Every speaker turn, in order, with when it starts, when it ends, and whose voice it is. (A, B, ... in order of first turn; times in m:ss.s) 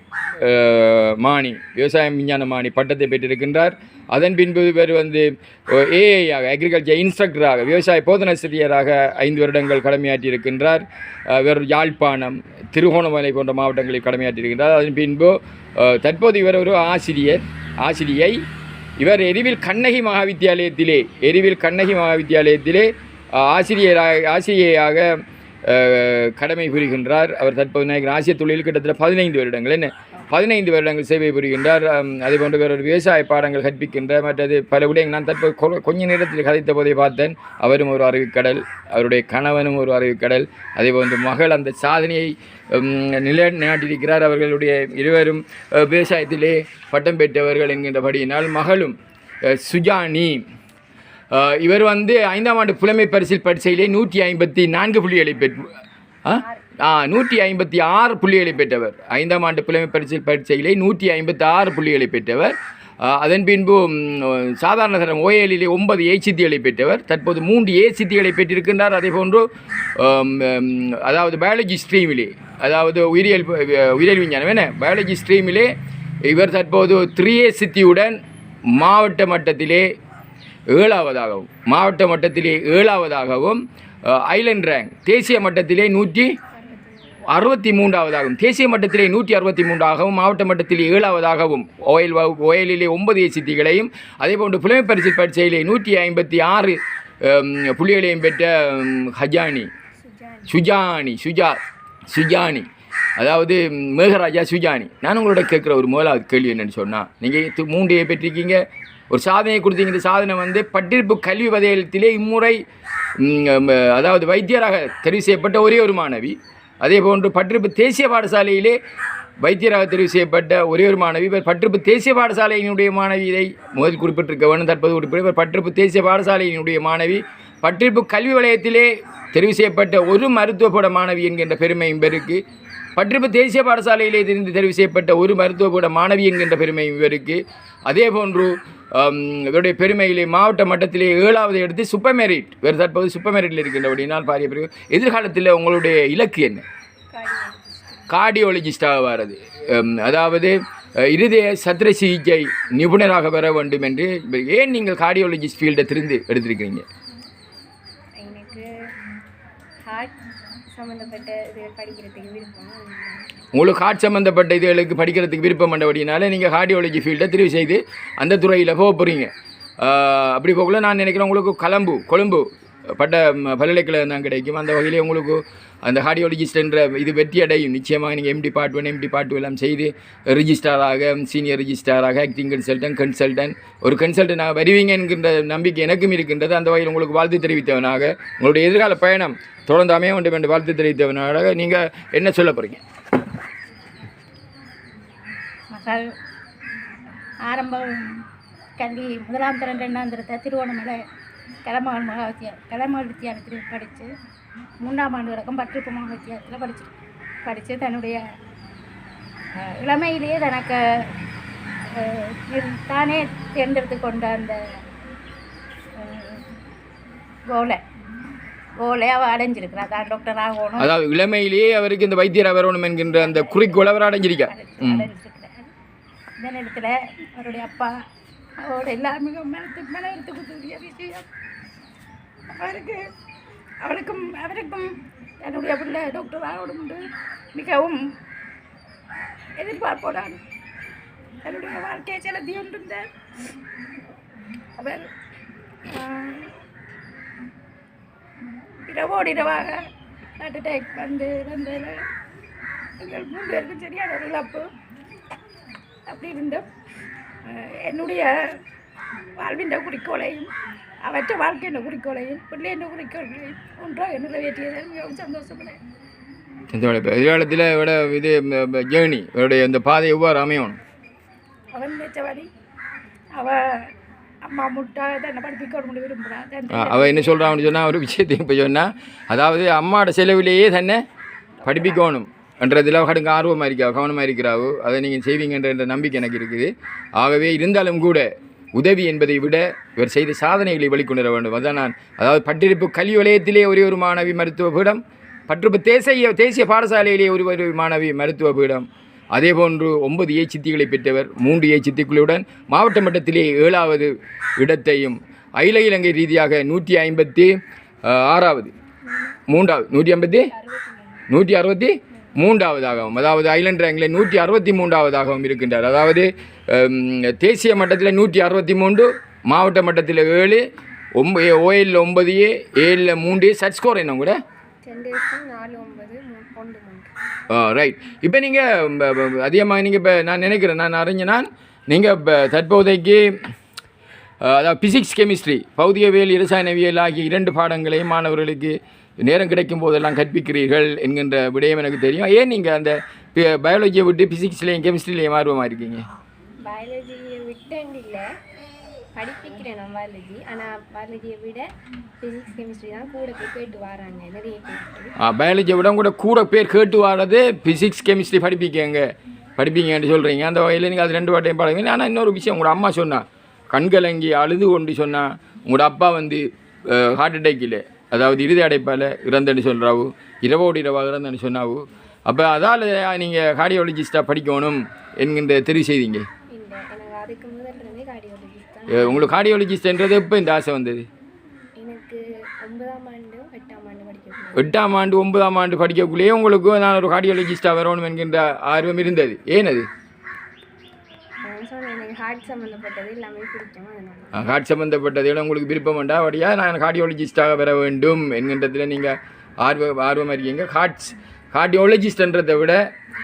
0:00.4-0:18.4 A
0:19.0-0:50.4 A
0:51.3-0:55.7 A
0:56.3-1:15.7 A
1:16.2-1:18.2 A
1:18.7-1:19.9 A
1:20.7-1:26.4 A
1:26.5-1:27.2 B
1:27.3-1:39.7 A
1:40.0-1:40.6 B
1:40.5-1:42.7 A
1:43.2-1:52.6 A
1:53.2-1:58.8 A
1:59.4-2:12.4 A
2:13.0-2:26.6 A
2:27.1-2:28.1 B
2:28.1-2:36.8 A
2:38.2-2:38.7 B
2:39.8-2:40.2 B
2:40.7-2:43.3 B
2:43.5-3:12.8 A
3:15.7-3:16.1 C
3:17.5-3:18.2 C
3:18.8-3:21.0 C
3:21.6-3:24.1 C
3:24.8-3:26.9 C
3:27.4-3:28.2 C
3:29.5-3:31.2 C
3:31.9-3:34.6 C
3:36.0-3:36.5 C
3:37.5-3:37.8 C
3:38.8-3:40.9 C
3:40.8-3:45.1 A
3:43.2-3:45.7 C
3:46.4-3:47.9 C
3:48.6-3:51.3 C
3:52.6-3:53.1 C
3:53.8-3:58.1 C
3:59.6-4:00.4 C
4:01.4-4:03.1 C
4:04.8-4:05.1 C
4:05.9-4:06.5 C
4:08.9-4:12.0 C
4:13.0-4:14.7 C
4:16.1-4:16.7 C
4:17.4-4:18.6 C
4:19.4-4:20.5 C
4:21.0-4:25.8 C
4:26.7-4:30.8 A
4:31.7-4:32.5 C
4:33.3-4:33.9 C
4:34.4-4:37.6 C
4:36.7-4:41.0 A
4:41.6-5:07.5 A
4:41.6-4:42.0 C
5:08.1-5:08.7 A
5:09.5-5:10.5 A
5:10.5-5:11.3 B
5:11.3-5:20.6 A
5:21.2-5:24.4 A
5:24.8-5:27.1 B
5:27.5-5:33.4 A
5:34.4-5:46.0 A
5:46.7-5:48.3 B
5:49.2-5:51.6 B
5:52.2-5:55.1 B
5:55.2-5:59.1 A
5:59.6-6:16.3 A
6:16.5-6:19.3 B
6:18.9-6:21.1 A
6:21.8-6:24.7 B
6:24.6-6:29.9 A
6:31.4-6:34.3 B
6:34.3-6:42.8 A